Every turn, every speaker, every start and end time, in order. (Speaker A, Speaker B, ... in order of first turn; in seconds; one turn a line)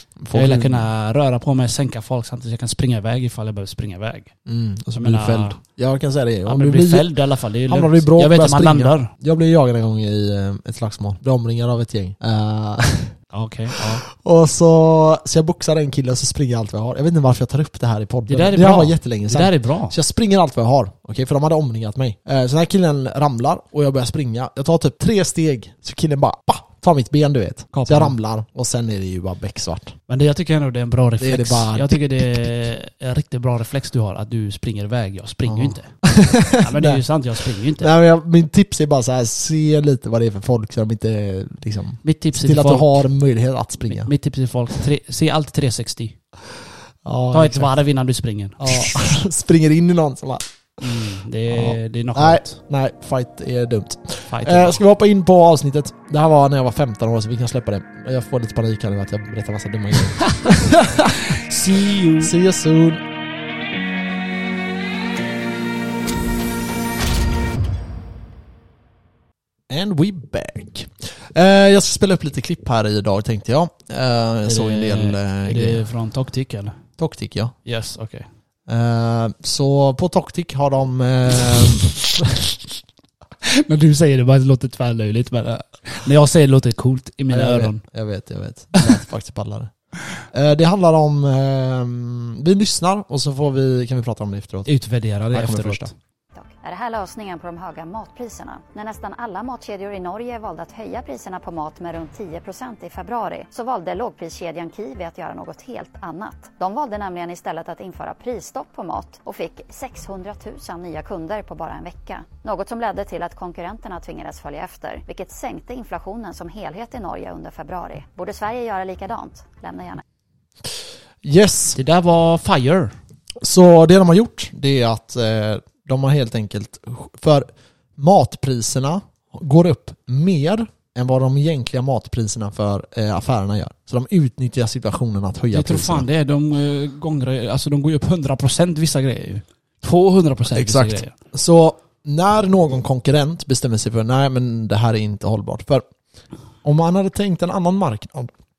Speaker A: 0.2-0.9
Speaker B: 0.3-4.3
Speaker A: 4.5-7.1
Speaker B: 5.0-5.6
Speaker B: 6.5-9.1
Speaker A: 7.7-13.2
Speaker B: 13.3-14.0
Speaker A: 13.7-30.0
Speaker B: 18.3-20.0
Speaker B: 27.7-28.1
Speaker B: 30.1-36.0
Speaker A: 31.2-32.2
Speaker A: 35.5-37.0
Speaker B: 36.5-37.9
Speaker A: 37.8-44.1
Speaker B: 42.0-43.0
Speaker B: 43.9-46.2
Speaker A: 47.0-47.7
Speaker B: 47.3-49.2
Speaker A: 48.6-50.5
Speaker B: 50.8-52.6
Speaker A: 51.5-61.3
Speaker B: 54.3-54.8
Speaker B: 60.2-60.5
Speaker B: 61.3-62.4
Speaker A: 62.2-63.0
Speaker A: 69.7-75.8
Speaker B: 74.5-76.8
Speaker A: 77.0-77.5
Speaker B: 77.7-78.3
Speaker A: 78.7-82.5
Speaker B: 83.4-87.8
Speaker A: 87.3-94.7
Speaker B: 94.7-95.9
Speaker A: 95.3-95.9
Speaker C: 96.3-120.0
Speaker A: 121.2-121.8
Speaker B: 121.7-123.0
Speaker A: 123.4-136.1
Speaker B: 135.5-141.1
Speaker A: 140.5-145.8
Speaker A: 146.6-148.3